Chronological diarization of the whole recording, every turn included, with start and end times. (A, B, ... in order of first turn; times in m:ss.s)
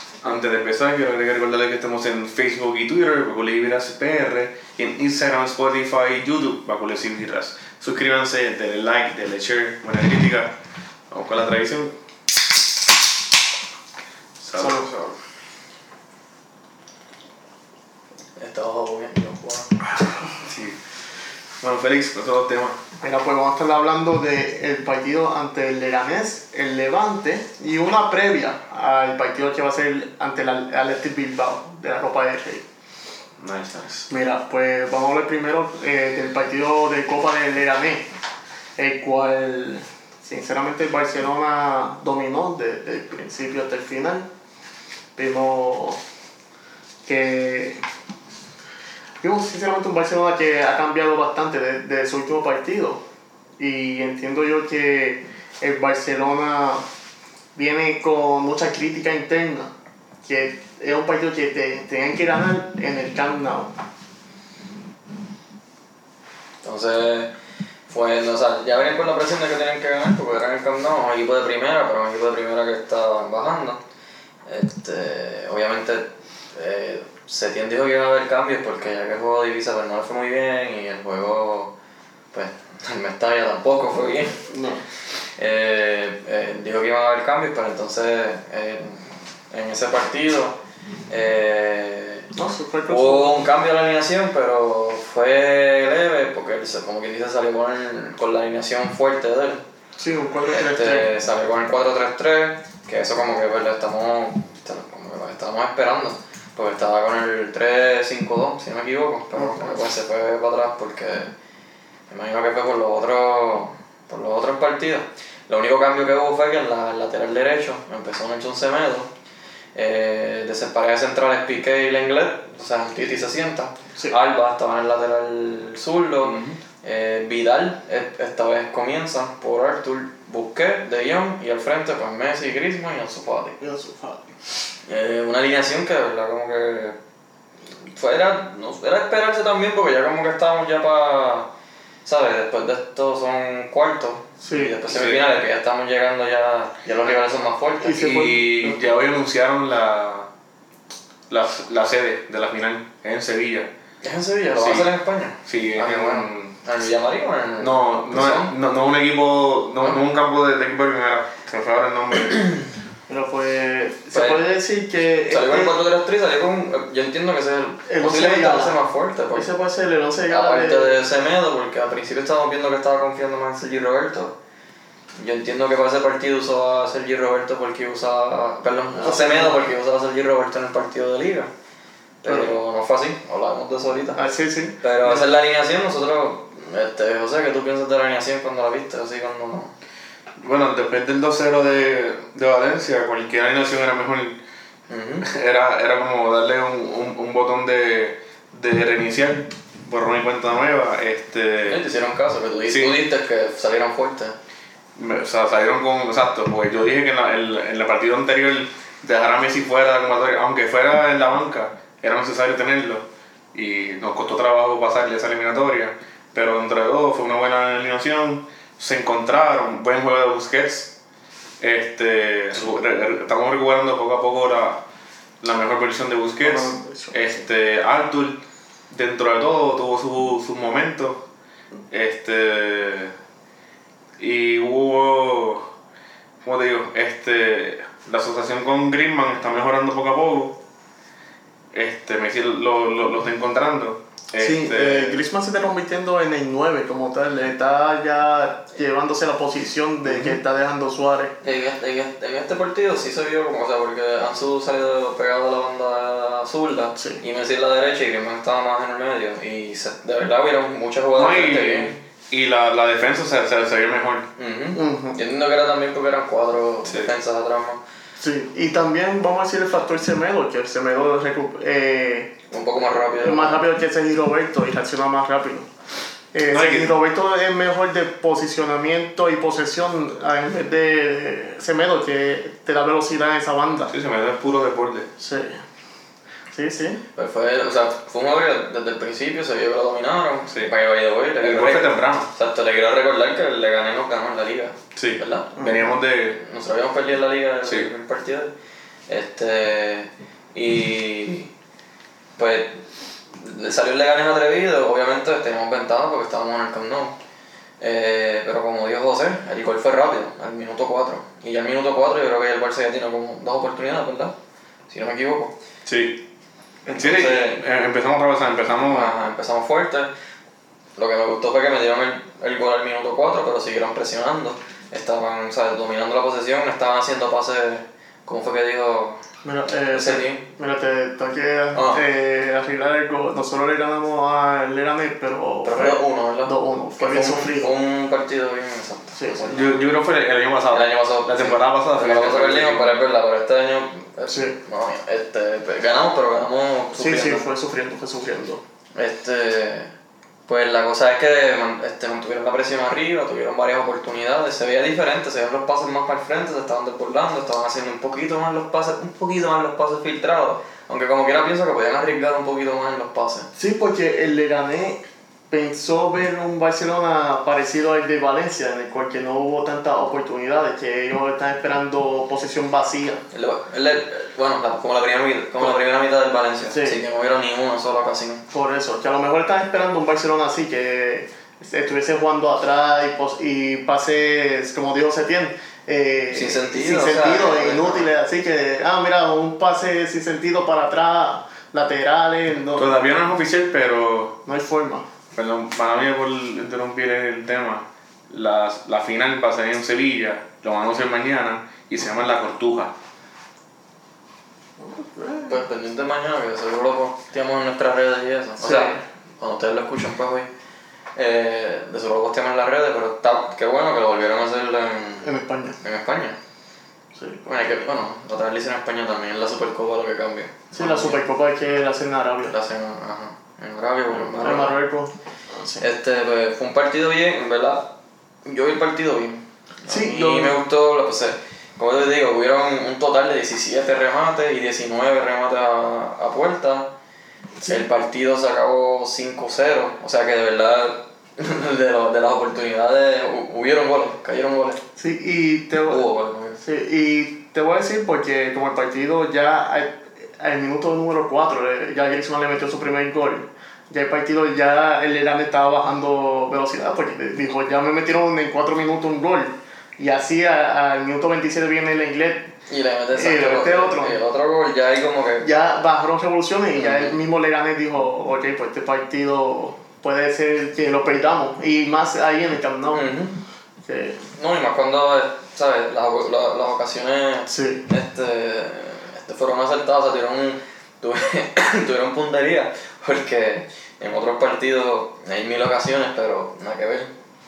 0:00.2-0:10.6 A
0:11.1-0:11.9 A
0:14.4-0:14.9 A
0:14.6-0:15.0 B
0:18.4-0:19.8 C
0:20.4-0:20.8 A
0:21.6-0:22.8 A
0:23.0-0:32.6 B
0:33.4-0:34.1 A
0:34.1-0:38.1 B
0:38.8-0:44.3 B
0:45.2-0:46.0 B
0:47.1-0:47.8 B
0:49.2-0:53.0 B
0:53.6-0:56.8 B
0:57.6-0:59.7 B
1:00.2-1:03.7 B
1:06.6-1:07.3 C
1:07.9-1:13.8 C
1:14.5-1:21.7 C
1:22.3-1:24.4 C
1:24.5-1:24.8 B
1:25.4-1:30.6 C
1:31.1-1:32.3 C
1:32.4-1:33.5 B
1:32.9-1:39.6 C
1:40.0-1:41.1 B
1:40.5-1:51.3 C
1:49.4-1:49.8 B
1:52.1-1:59.1 C
1:59.8-2:13.6 C
2:06.2-2:06.6 A
2:13.6-2:14.3 B
2:14.9-2:17.0 C
2:17.9-2:21.5 C
2:22.0-2:28.0 C
2:24.4-2:24.8 B
2:24.9-2:25.2 A
2:27.8-2:28.9 B
2:27.9-2:30.3 A
2:31.3-2:33.7 A
2:34.0-2:38.5 C
2:34.5-2:34.9 A
2:35.4-2:36.5 A
2:37.6-2:42.6 A
2:43.1-2:45.8 B
2:44.1-2:44.4 C
2:45.3-2:49.5 C
2:47.9-2:48.8 B
2:49.3-2:51.0 B
2:50.3-2:54.4 C
2:55.2-3:01.5 C
2:59.0-2:59.6 B
3:02.2-3:04.2 C
3:04.2-3:05.3 B
3:04.8-3:09.7 C
3:10.4-3:14.4 A
3:14.9-3:15.3 C
3:15.2-3:21.8 A
3:21.6-3:24.4 C
3:22.7-3:23.0 A
3:25.0-3:40.9 A
3:41.6-3:44.8 A
3:45.4-3:51.2 A
3:46.4-3:47.4 B
3:51.9-3:53.1 A
3:54.2-3:55.7 A
3:56.4-4:00.6 A
4:01.7-4:05.2 A
4:04.4-4:11.4 B
4:11.4-4:22.0 C
4:17.0-4:17.2 B
4:21.2-4:24.3 A
4:24.4-4:27.8 C
4:24.8-4:25.2 B
4:26.8-4:27.1 A
4:28.2-4:32.4 B
4:32.5-4:33.6 C
4:33.2-4:35.7 B
4:36.3-4:43.9 B
4:36.5-4:37.0 A
4:43.9-4:45.1 A
4:45.2-4:45.6 B
4:46.5-4:47.0 B
4:47.2-4:55.5 C
4:51.4-4:52.3 A
4:55.0-4:56.4 A
4:55.6-4:55.9 B
4:56.3-4:58.5 C
4:57.6-4:57.9 A
4:59.1-5:01.5 C
5:02.4-5:02.8 C
5:03.4-5:07.2 C
5:07.8-5:14.3 C
5:14.9-5:15.5 C
5:15.8-5:16.2 A
5:16.9-5:19.1 A
5:16.9-5:17.6 C
5:18.8-5:20.1 C
5:21.0-5:29.2 C
5:29.4-5:37.8 B
5:29.9-5:30.4 C
5:31.7-5:32.0 C
5:35.6-5:39.8 C
5:39.2-5:39.4 B
5:39.5-5:43.0 A
5:40.7-5:47.4 C
5:44.3-5:44.6 B
5:47.0-5:48.6 B
5:49.0-5:49.9 C
5:50.5-6:03.5 C
6:03.6-6:13.2 B
6:13.3-6:18.4 C
6:16.7-6:17.0 B
6:18.5-6:33.0 B
6:26.3-6:28.1 C
6:32.8-6:34.4 A
6:34.5-6:35.0 B
6:35.3-6:42.9 A
6:44.8-6:45.6 B
6:45.5-6:50.5 C
6:48.6-6:49.0 B
6:51.2-6:56.4 C
6:55.2-6:55.8 B
6:57.2-6:57.7 B
6:57.4-7:01.2 C
7:00.7-7:02.6 B
7:02.5-7:04.8 C
7:04.1-7:05.8 B
7:05.8-7:07.9 C
7:08.4-7:16.9 C
7:09.9-7:10.6 B
7:17.7-7:24.8 C
7:25.0-7:26.1 B
7:25.9-7:26.6 C
7:26.6-7:42.5 B
7:42.7-7:45.5 C
7:43.1-7:44.2 B
7:45.4-7:53.1 B
7:46.8-7:47.2 C
7:52.9-7:53.4 C
7:53.8-7:54.2 B
7:54.4-8:07.1 C
7:57.5-7:57.8 B